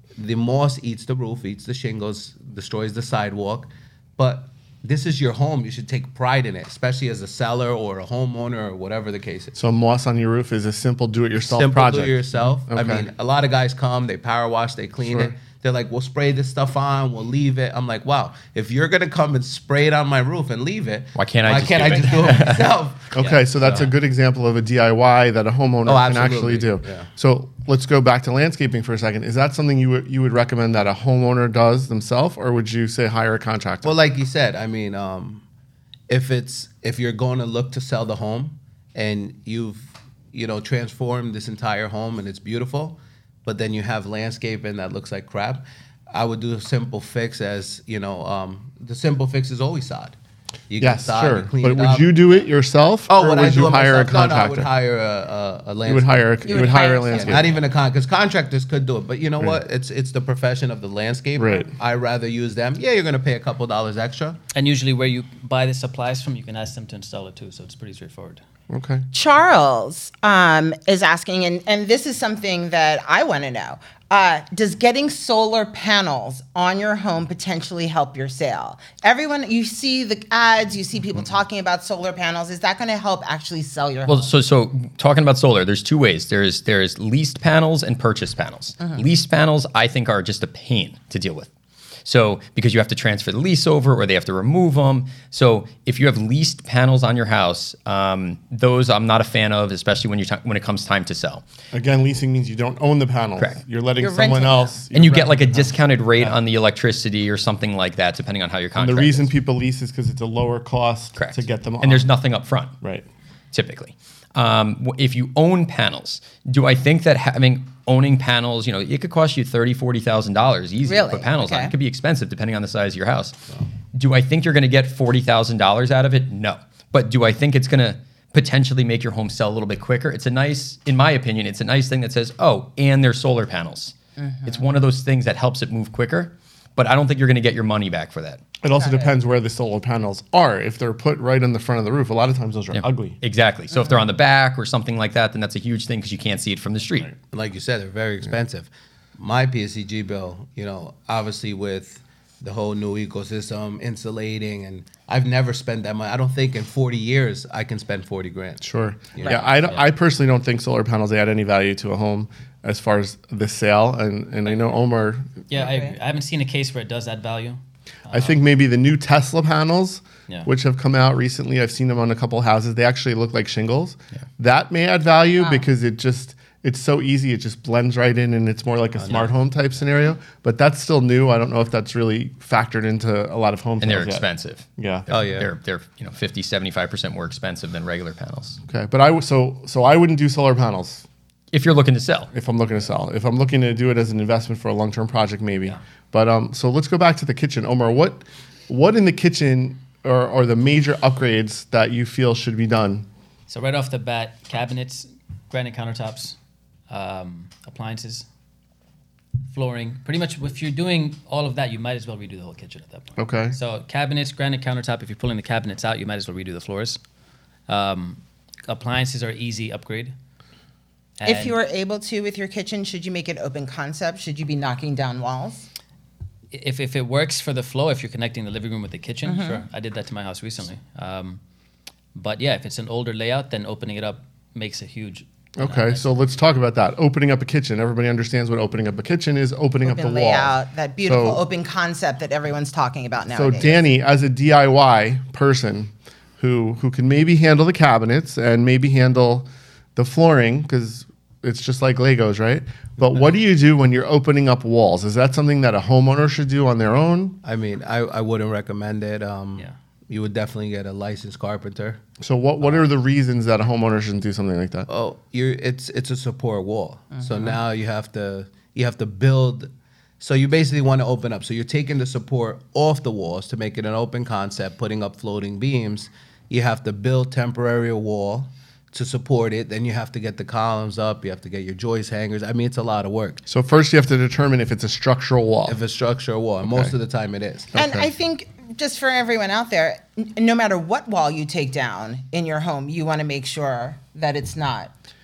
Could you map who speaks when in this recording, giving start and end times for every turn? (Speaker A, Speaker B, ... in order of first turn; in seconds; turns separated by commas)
Speaker A: 0.2-9.6, Speaker B: 9.6-13.1, Speaker A: 11.5-23.8, Speaker B: 15.1-15.3, Speaker C: 21.1-22.7, Speaker B: 23.2-34.0, Speaker D: 23.2-23.9, Speaker A: 25.9-27.1, Speaker A: 33.8-35.4, Speaker A: 36.1-50.2, Speaker A: 50.7-52.4, Speaker B: 50.8-54.7, Speaker A: 53.1-64.4, Speaker B: 55.9-57.6, Speaker E: 56.5-57.5, Speaker B: 61.4-61.7, Speaker D: 64.5-68.4, Speaker B: 68.7-69.1, Speaker E: 69.1-84.3, Speaker C: 84.1-91.5, Speaker C: 92.0-101.4, Speaker B: 101.7-106.3, Speaker E: 104.0-104.8, Speaker C: 104.9-109.3, Speaker B: 108.8-112.1, Speaker C: 111.2-112.7, Speaker C: 113.5-123.4, Speaker E: 120.9-121.7, Speaker C: 123.9-138.4, Speaker E: 134.2-134.6, Speaker B: 138.6-143.2, Speaker E: 138.7-139.1, Speaker C: 142.7-147.1, Speaker E: 143.7-144.0, Speaker A: 147.3-159.5, Speaker B: 158.6-165.4, Speaker D: 159.2-159.8, Speaker D: 165.5-168.4, Speaker E: 165.6-165.9, Speaker B: 168.1-184.2, Speaker A: 179.0-179.3, Speaker C: 183.8-188.6, Speaker B: 184.8-185.1, Speaker A: 185.1-185.5, Speaker B: 188.7-191.1, Speaker C: 191.5-192.3, Speaker B: 192.3-203.1, Speaker D: 203.5-206.4, Speaker D: 206.9-208.3, Speaker D: 209.5-217.0, Speaker B: 213.2-213.6, Speaker D: 217.7-220.1, Speaker D: 221.2-221.6, Speaker E: 221.3-225.7, Speaker D: 226.5-231.4, Speaker E: 229.3-229.6, Speaker D: 232.1-236.1, Speaker B: 235.6-241.4, Speaker E: 239.8-243.8, Speaker B: 243.3-257.4, Speaker A: 257.4-262.0, Speaker B: 262.2-264.9, Speaker A: 264.9-283.4, Speaker B: 283.5-285.8, Speaker A: 285.7-287.7, Speaker B: 286.7-286.9, Speaker B: 287.7-288.1, Speaker E: 287.8-294.9